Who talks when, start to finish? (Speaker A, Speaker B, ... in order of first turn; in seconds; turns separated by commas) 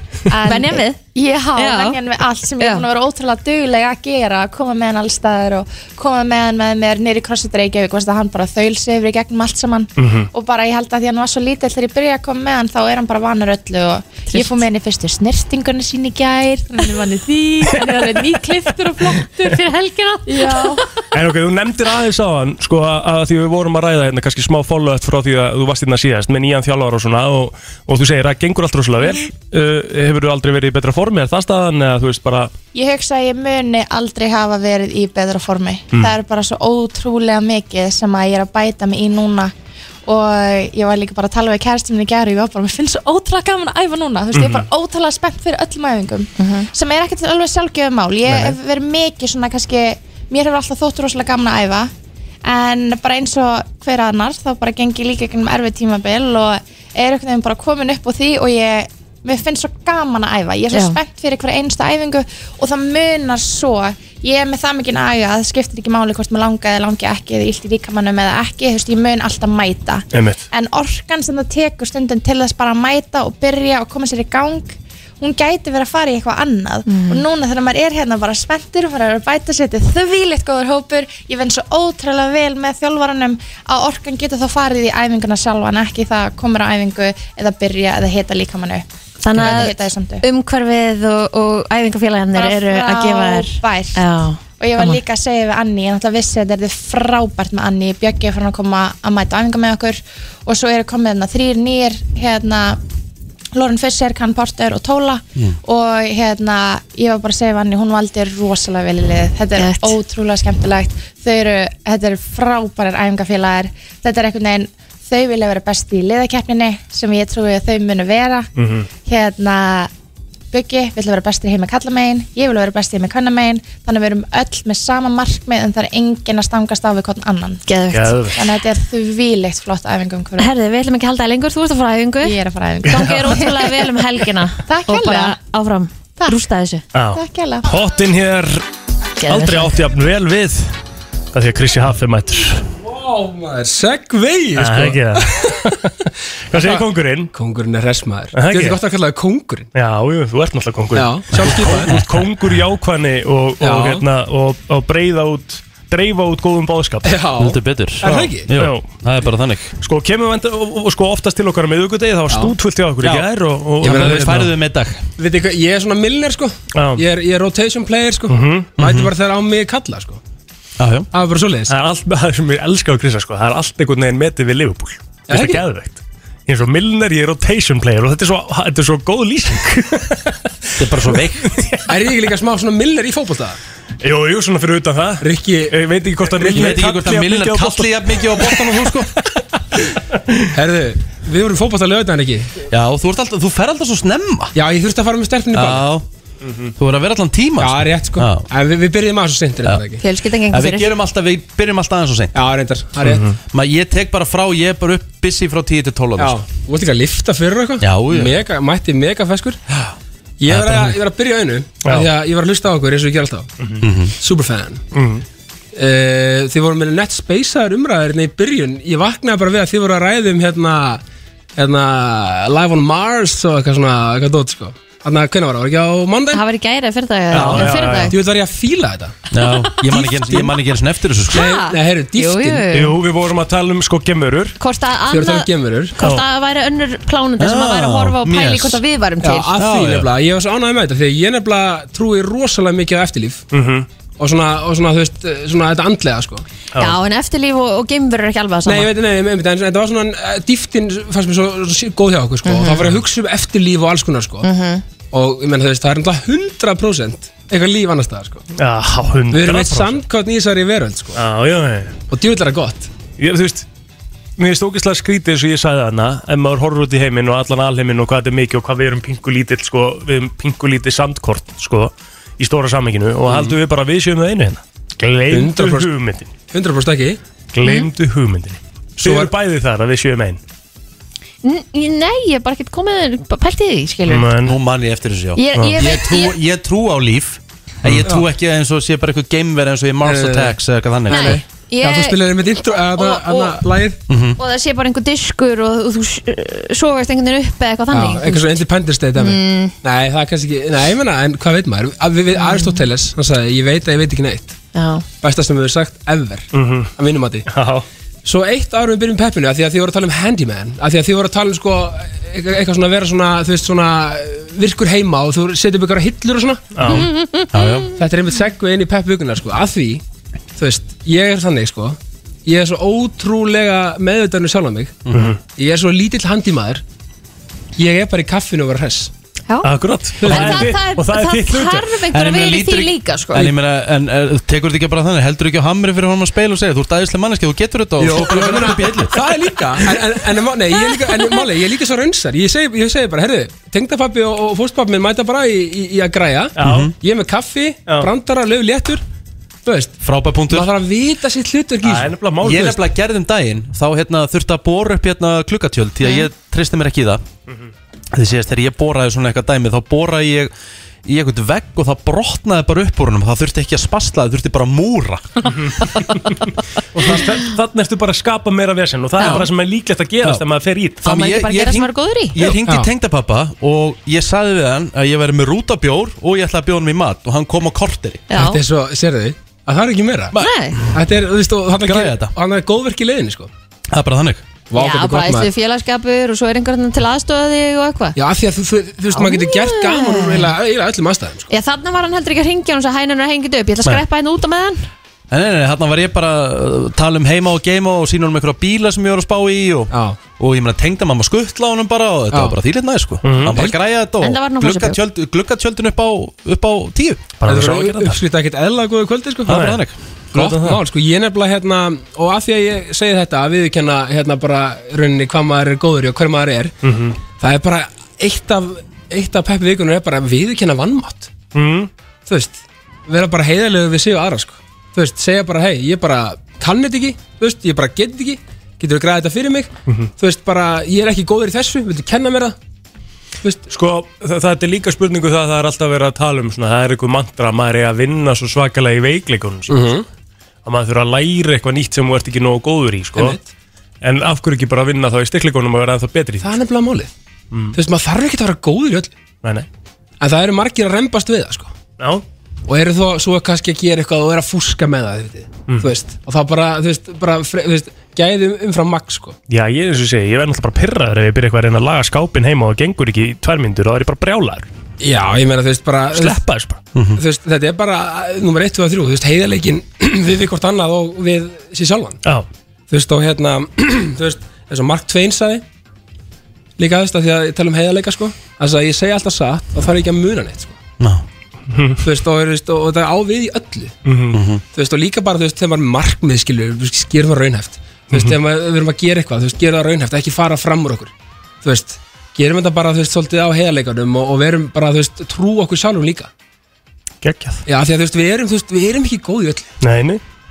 Speaker A: 0.3-19.6, Speaker B: 0.4-1.0, Speaker B: 1.6-2.0, Speaker B: 2.6-2.9, Speaker C: 10.0-10.3, Speaker B: 14.3-14.6, Speaker B: 19.4-20.8, Speaker A: 20.2-20.8, Speaker C: 21.1-32.5, Speaker A: 32.7-39.5, Speaker A: 40.0-51.9, Speaker C: 44.3-44.7, Speaker B: 46.4-46.7, Speaker C: 48.3-48.5, Speaker A: 52.4-90.2, Speaker B: 60.7-61.0, Speaker C: 70.1-70.4, Speaker B: 76.9-77.2, Speaker B: 89.2-95.0, Speaker A: 92.3-94.0, Speaker A: 94.6-102.8, Speaker A: 103.5-118.5, Speaker B: 109.5-110.0, Speaker C: 118.5-118.9, Speaker A: 119.0-119.9, Speaker A: 120.5-127.7, Speaker B: 127.7-128.3, Speaker C: 127.9-128.4, Speaker A: 128.3-130.5, Speaker B: 130.4-136.8, Speaker A: 132.2-133.7, Speaker C: 132.9-133.2, Speaker A: 134.7-135.4, Speaker C: 136.9-138.6, Speaker A: 137.1-137.7, Speaker B: 139.2-139.7, Speaker C: 139.2-140.7, Speaker C: 141.3-142.6, Speaker D: 142.7-145.6, Speaker C: 144.6-147.3, Speaker D: 146.5-149.7, Speaker C: 148.3-148.8, Speaker C: 149.7-157.2, Speaker D: 150.9-152.0, Speaker E: 151.9-152.3, Speaker D: 153.6-154.1, Speaker D: 157.0-158.5, Speaker E: 157.4-159.7, Speaker C: 158.5-158.9, Speaker C: 159.8-164.5, Speaker D: 162.3-162.6, Speaker E: 163.0-163.3, Speaker D: 163.8-164.5, Speaker E: 163.8-165.0, Speaker D: 165.2-170.2, Speaker C: 166.7-167.0, Speaker C: 168.3-168.7, Speaker E: 168.8-169.1, Speaker E: 170.8-171.1, Speaker D: 171.1-171.8, Speaker C: 171.7-180.4, Speaker D: 175.3-175.6, Speaker E: 180.8-181.5, Speaker C: 181.4-181.8, Speaker D: 181.9-183.6, Speaker C: 184.0-188.7, Speaker D: 185.2-186.8, Speaker E: 186.4-189.1, Speaker C: 190.1-190.5, Speaker D: 190.5-192.5, Speaker E: 192.7-194.5, Speaker D: 194.5-195.9, Speaker E: 195.5-196.0, Speaker E: 196.8-198.4, Speaker D: 197.6-200.0, Speaker B: 200.0-200.9, Speaker E: 200.5-202.3, Speaker D: 202.3-203.3, Speaker C: 203.0-203.3, Speaker E: 203.5-206.4, Speaker D: 206.2-209.6, Speaker E: 207.8-208.3, Speaker D: 210.4-213.5, Speaker E: 210.5-210.9, Speaker E: 213.8-214.1, Speaker D: 214.2-214.8, Speaker C: 214.9-215.2, Speaker D: 215.7-221.0, Speaker D: 221.6-226.4, Speaker B: 226.3-228.1, Speaker C: 227.3-228.1, Speaker D: 227.3-229.2, Speaker E: 229.3-231.5, Speaker B: 229.4-230.1, Speaker D: 229.9-230.5, Speaker D: 231.3-232.7, Speaker B: 231.3-232.9, Speaker C: 232.7-234.6, Speaker B: 234.6-239.6, Speaker D: 235.1-236.0, Speaker E: 237.4-238.8, Speaker D: 239.2-243.4, Speaker E: 239.6-240.1, Speaker C: 243.5-243.9, Speaker D: 244.2-246.4, Speaker B: 246.8-248.9, Speaker D: 248.6-254.5, Speaker B: 252.4-252.9, Speaker B: 254.4-254.8, Speaker D: 255.1-258.4, Speaker C: 258.6-260.0, Speaker D: 259.3-261.2, Speaker C: 261.1-262.0, Speaker D: 262.1-262.9, Speaker C: 263.2-263.7, Speaker C: 264.4-276.3, Speaker D: 273.2-273.6, Speaker D: 275.3-275.9, Speaker D: 276.5-277.2, Speaker C: 277.5-280.4, Speaker D: 279.0-279.3, Speaker B: 281.4-284.3, Speaker C: 284.1-284.6, Speaker E: 284.4-291.4, Speaker B: 285.4-286.4, Speaker D: 290.0-290.6, Speaker B: 291.1-292.2, Speaker D: 291.1-294.0, Speaker B: 292.9-293.6, Speaker E: 294.1-294.4, Speaker B: 294.4-298.4, Speaker D: 297.9-304.6, Speaker B: 299.1-299.7, Speaker B: 302.4-302.8, Speaker B: 304.7-305.0, Speaker D: 305.2-307.5, Speaker C: 306.5-306.9, Speaker C: 307.5-307.8, Speaker D: 308.2-317.0, Speaker C: 316.7-317.1, Speaker B: 316.9-317.9, Speaker E: 317.5-317.9, Speaker D: 318.0-320.0, Speaker D: 320.6-326.8, Speaker E: 325.1-325.3, Speaker C: 325.1-325.4, Speaker D: 327.8-329.1, Speaker C: 329.6-331.8, Speaker D: 330.2-330.8, Speaker B: 330.2-333.5, Speaker E: 332.1-339.1, Speaker D: 338.0-349.0, Speaker B: 340.8-341.4, Speaker C: 346.6-346.9, Speaker E: 346.6-346.9, Speaker D: 349.6-349.9, Speaker E: 350.0-350.7, Speaker D: 350.5-352.7, Speaker C: 351.8-352.8, Speaker E: 352.4-357.2, Speaker E: 358.1-360.5, Speaker E: 361.0-365.6, Speaker C: 365.6-366.3, Speaker C: 366.9-371.0, Speaker B: 369.2-369.5, Speaker B: 371.0-372.5, Speaker E: 371.0-378.2, Speaker D: 372.4-372.9, Speaker B: 378.3-378.6, Speaker D: 378.3-380.3, Speaker B: 380.4-380.8, Speaker D: 380.9-383.5, Speaker E: 381.8-382.3, Speaker E: 383.9-384.4, Speaker D: 384.7-385.5, Speaker B: 384.7-388.2, Speaker D: 388.1-391.5, Speaker B: 389.1-390.5, Speaker B: 391.5-394.8, Speaker E: 395.3-407.4, Speaker D: 399.9-400.2, Speaker D: 402.3-402.6, Speaker C: 403.2-403.7, Speaker B: 404.2-405.0, Speaker C: 407.4-408.2, Speaker D: 407.4-409.6, Speaker E: 409.5-410.0, Speaker C: 409.5-409.8, Speaker D: 410.3-416.7, Speaker C: 410.3-410.8, Speaker C: 416.8-417.2, Speaker D: 417.3-421.4, Speaker C: 421.5-421.9, Speaker D: 422.2-432.6, Speaker D: 433.4-433.7, Speaker C: 433.7-440.0, Speaker D: 439.7-440.1, Speaker C: 440.6-443.4, Speaker D: 443.1-443.4, Speaker C: 444.0-446.6, Speaker D: 446.4-447.1, Speaker C: 447.5-447.8, Speaker D: 447.7-449.2, Speaker D: 450.2-451.7, Speaker C: 452.0-452.2, Speaker D: 452.7-459.4, Speaker C: 459.5-464.7, Speaker D: 465.0-466.4, Speaker C: 466.1-466.8, Speaker D: 467.2-472.2, Speaker D: 472.9-475.6, Speaker D: 476.8-480.8, Speaker E: 481.0-481.2, Speaker C: 481.7-482.0, Speaker D: 482.0-484.0, Speaker C: 484.1-484.4, Speaker E: 484.3-484.6, Speaker D: 484.7-491.1, Speaker D: 491.6-496.3, Speaker C: 497.2-497.6, Speaker D: 497.7-499.7, Speaker C: 499.8-500.2